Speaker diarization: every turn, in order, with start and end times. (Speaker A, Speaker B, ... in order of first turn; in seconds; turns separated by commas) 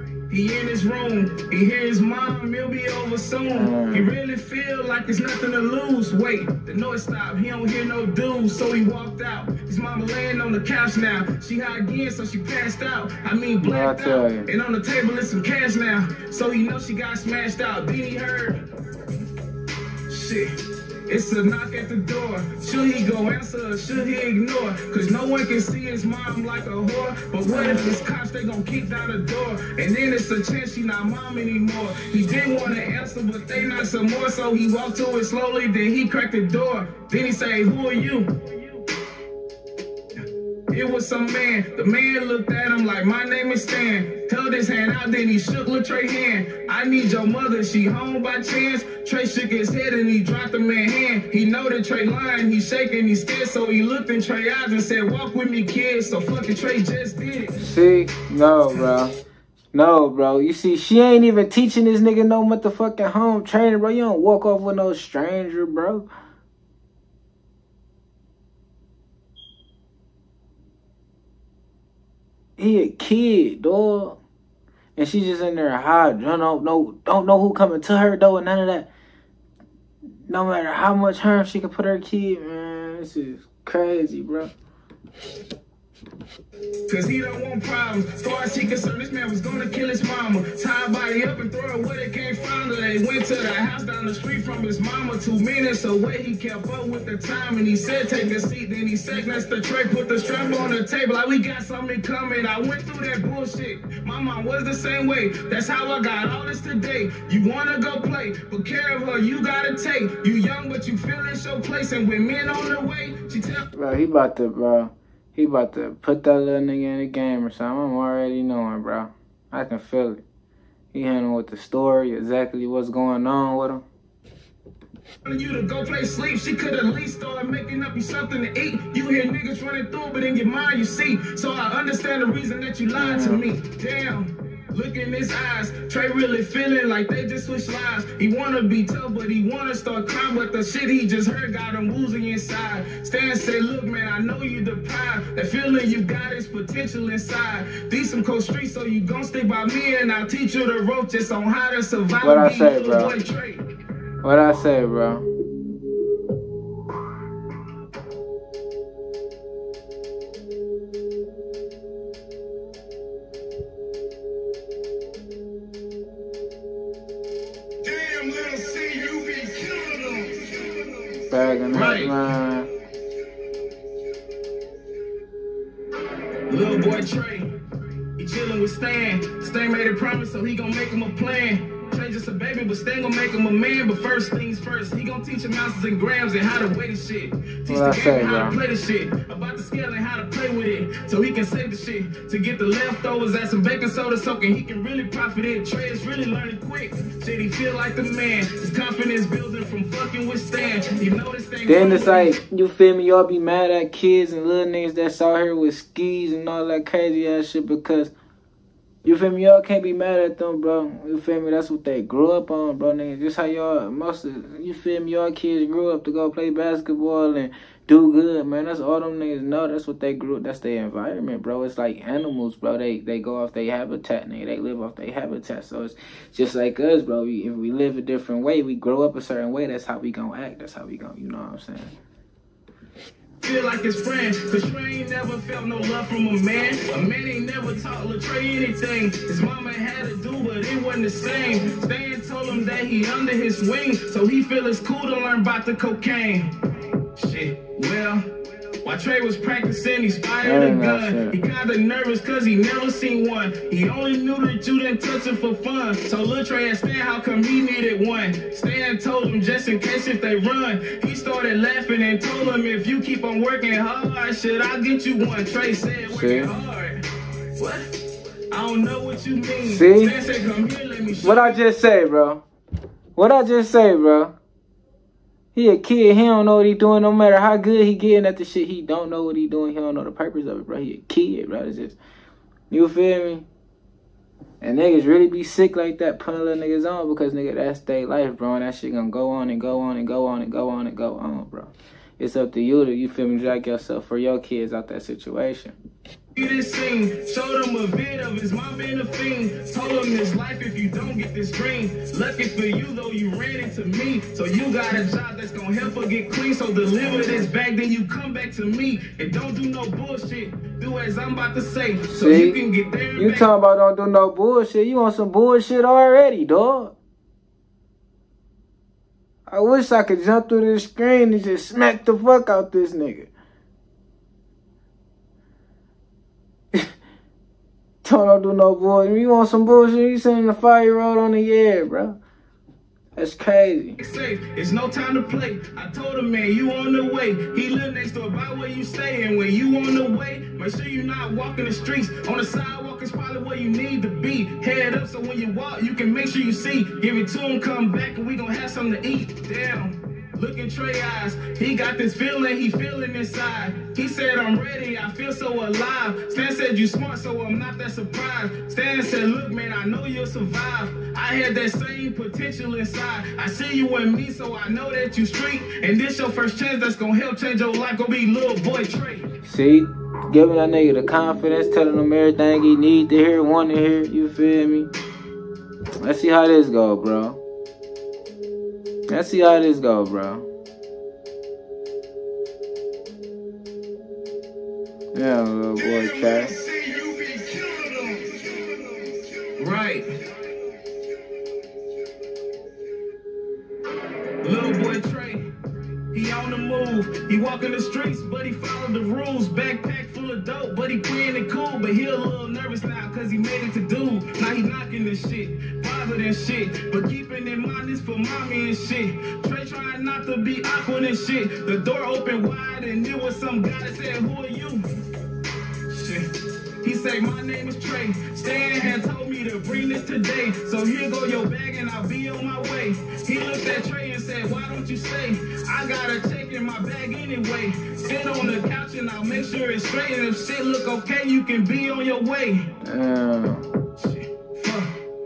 Speaker A: 0.3-18.6, Speaker B: 3.5-4.1, Speaker B: 13.6-14.5, Speaker A: 20.1-20.5, Speaker A: 21.1-38.5, Speaker B: 27.5-28.0, Speaker A: 40.7-57.6, Speaker B: 57.6-59.1, Speaker B: 59.7-66.1, Speaker B: 72.6-74.2, Speaker B: 75.0-78.9, Speaker B: 80.3-84.5, Speaker A: 86.9-113.7, Speaker B: 113.7-120.2, Speaker B: 120.9-123.8, Speaker A: 125.2-153.7, Speaker B: 132.9-133.4, Speaker B: 152.2-153.1, Speaker B: 154.2-155.2, Speaker C: 167.8-171.3, Speaker B: 171.3-172.7, Speaker A: 171.7-172.1, Speaker A: 176.5-177.6, Speaker A: 178.2-202.3, Speaker B: 187.7-188.6, Speaker B: 201.7-208.1, Speaker B: 209.0-231.9, Speaker A: 233.4-246.5, Speaker A: 247.1-267.0, Speaker B: 250.4-251.4, Speaker B: 266.1-266.5, Speaker A: 267.6-267.9, Speaker A: 268.5-271.6, Speaker B: 269.6-270.1, Speaker B: 271.2-272.4, Speaker B: 273.2-274.3, Speaker B: 275.6-282.0, Speaker B: 282.7-283.5, Speaker B: 284.6-295.7, Speaker A: 296.4-313.5, Speaker B: 312.1-312.6, Speaker B: 313.2-316.9, Speaker B: 319.5-323.3, Speaker B: 328.0-332.2, Speaker B: 333.2-334.0, Speaker A: 334.0-369.3, Speaker B: 369.4-374.9, Speaker B: 376.0-377.4, Speaker B: 379.1-380.5, Speaker B: 385.1-386.5, Speaker C: 385.8-389.5, Speaker A: 389.6-390.1, Speaker A: 394.4-395.5, Speaker A: 396.1-414.8, Speaker A: 415.9-416.3, Speaker A: 416.8-432.7, Speaker B: 432.8-433.7, Speaker A: 434.0-434.9